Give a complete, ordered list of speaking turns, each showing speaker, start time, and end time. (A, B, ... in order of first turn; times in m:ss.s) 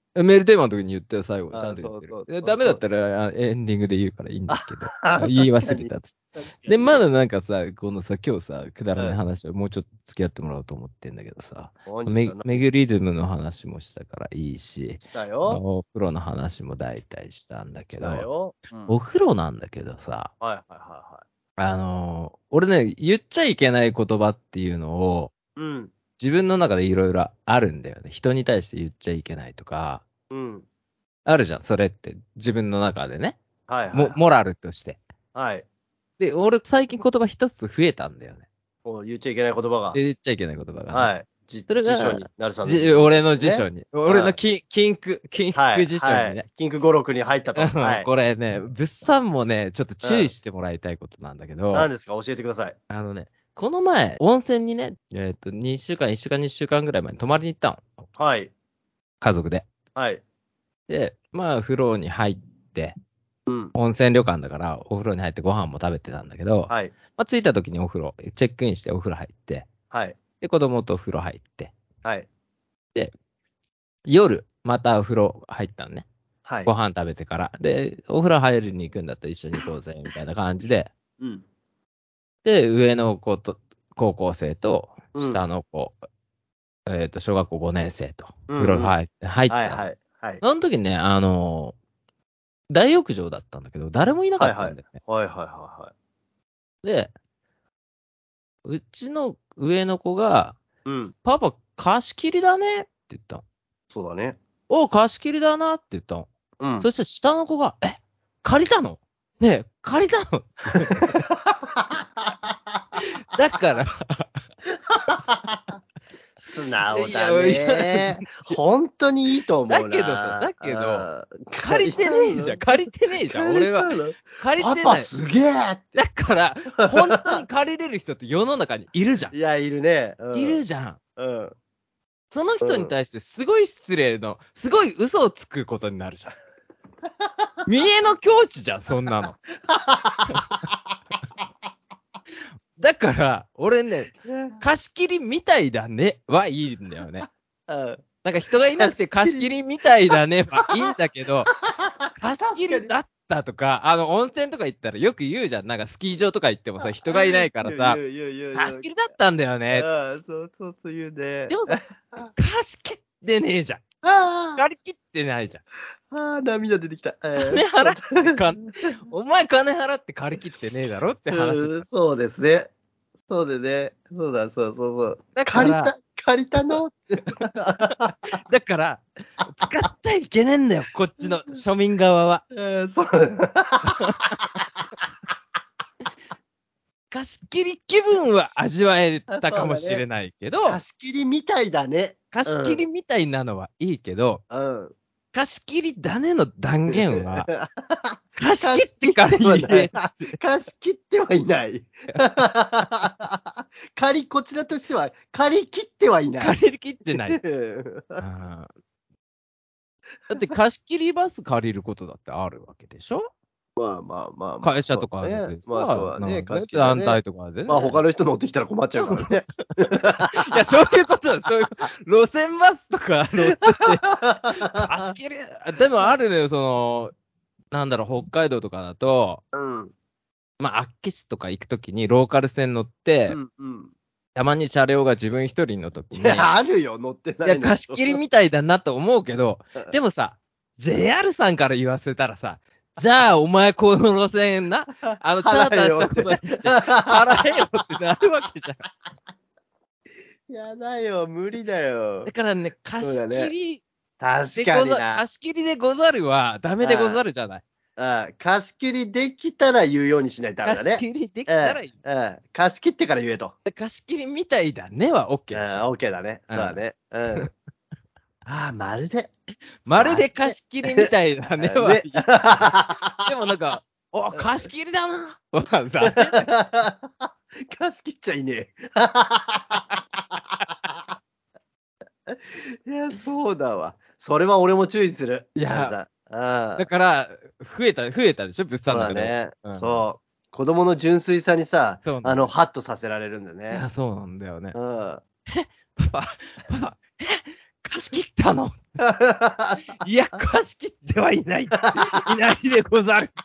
0:00.1-0:18.2 A
0:01.5-0:02.8 B
0:04.5-0:07.0 B
0:11.8-0:12.7 B
0:15.1-0:15.6 B
0:17.9-0:19.0 B
0:18.9-0:20.3 A
0:20.4-0:21.2 B
0:21.6-0:25.3 A
0:25.6-0:25.9 B
0:26.2-0:30.0 A
0:30.3-0:30.7 B
0:31.2-0:33.4 A
0:33.7-0:34.2 B
0:33.9-0:35.0 A
0:35.3-0:35.6 B
0:36.2-0:38.4 A
0:38.8-0:40.0 B
0:39.9-0:41.1 A
0:40.9-0:44.4 B
0:41.7-0:46.4 A
0:45.5-0:48.1 B
0:47.5-0:51.9 A
0:50.0-0:50.3 B
0:51.7-0:52.8 B
0:52.9-0:58.0 A
0:58.2-0:58.5 B
0:59.2-0:59.6 A
1:00.0-1:00.2 B
1:00.9-1:02.9 A
1:03.5-1:03.7 B
1:03.7-1:09.7 A
1:06.7-1:06.9 B
1:09.9-1:10.2 B
1:10.4-1:11.7 A
1:14.0-1:16.0 A
1:16.4-1:16.7 B
1:16.6-1:20.9 A
1:21.2-1:21.4 B
1:22.4-1:26.0 A
1:25.1-1:25.4 B
1:26.9-1:29.8 A
1:28.5-1:29.0 B
1:29.5-1:30.4 B
1:30.4-1:31.7 A
1:32.7-1:35.0 A
1:34.4-1:35.9 B
1:36.8-1:37.1 A
1:38.6-1:40.6 A
1:40.8-1:41.1 B
1:41.2-1:43.4 A
1:43.9-1:44.4 B
1:44.7-1:51.2 A
1:46.6-1:46.9 B
1:50.8-1:51.9 B
1:53.0-1:54.3 A
1:55.1-1:55.6 B
1:56.4-2:02.7 B
1:56.9-1:58.6 A
1:59.7-2:01.1 A
2:01.6-2:05.1 A
2:03.2-2:06.0 B
2:06.0-2:09.3 A
2:06.8-2:07.4 B
2:09.3-2:10.6 B
2:10.3-2:11.0 A
2:11.2-2:11.5 B
2:12.3-2:16.3 A
2:12.6-2:12.9 B
2:17.6-2:19.4 A
2:19.7-2:20.3 B
2:22.8-2:27.2 A
2:24.2-2:24.6 B
2:27.7-2:28.0 B
2:28.2-2:31.5 A
2:28.8-2:29.5 B
2:30.6-2:30.9 B
2:31.6-2:32.9 B
2:32.2-2:38.0 A
2:36.8-2:38.9 B
2:38.5-2:39.8 A
2:39.7-2:42.3 B
2:41.5-2:41.8 A
2:42.4-2:43.8 A
2:44.0-2:44.6 B
2:44.6-2:45.6 A
2:46.1-2:48.9 B
2:47.4-2:51.8 A
2:51.3-2:52.7 B
2:53.3-2:58.1 B
2:55.3-2:55.9 A
2:57.7-3:02.4 A
3:02.5-3:04.2 B
3:03.8-3:04.6 A
3:07.1-3:10.8 A
3:09.3-3:10.0 B
3:10.6-3:12.8 B
3:12.3-3:14.4 A
3:14.5-3:14.9 B
3:15.3-3:17.5 A
3:16.9-3:26.6 B
3:18.4-3:20.4 A
3:26.4-3:27.4 A
3:27.2-3:28.2 B
3:28.2-3:28.7 A
3:30.3-3:33.3 A
3:33.8-3:40.5 B
3:34.6-3:38.0 A
3:39.0-3:39.3 A
3:40.3-3:47.1 A
3:43.8-3:45.1 B
3:47.7-3:49.4 A
3:49.5-3:49.9 B
3:50.6-3:53.4 A
3:53.3-3:53.9 B
3:54.3-3:56.5 A
3:56.1-3:58.2 B
3:57.4-4:08.8 A
4:05.4-4:07.6 B
4:10.5-4:12.3 B
4:12.2-4:13.8 A
4:13.0-4:13.5 B
4:14.2-4:15.2 B
4:14.5-4:17.6 A
4:16.8-4:17.2 B
4:18.0-4:23.5 B
4:20.6-4:21.9 A
4:23.6-4:25.8 A
4:25.5-4:27.5 B
4:26.5-4:26.8 A
4:28.4-4:29.3 B
4:29.8-4:36.5 A
4:30.0-4:33.3 B
4:36.0-4:40.0 B
4:42.3-4:46.8 B
4:45.6-4:46.0 A
4:46.8-4:50.0 A
4:48.9-4:53.8 B
4:52.0-4:52.5 A
4:53.7-4:54.8 A
4:54.7-4:55.2 B
4:55.5-4:59.0 A
4:59.0-4:59.8 B
5:00.0-5:03.4 A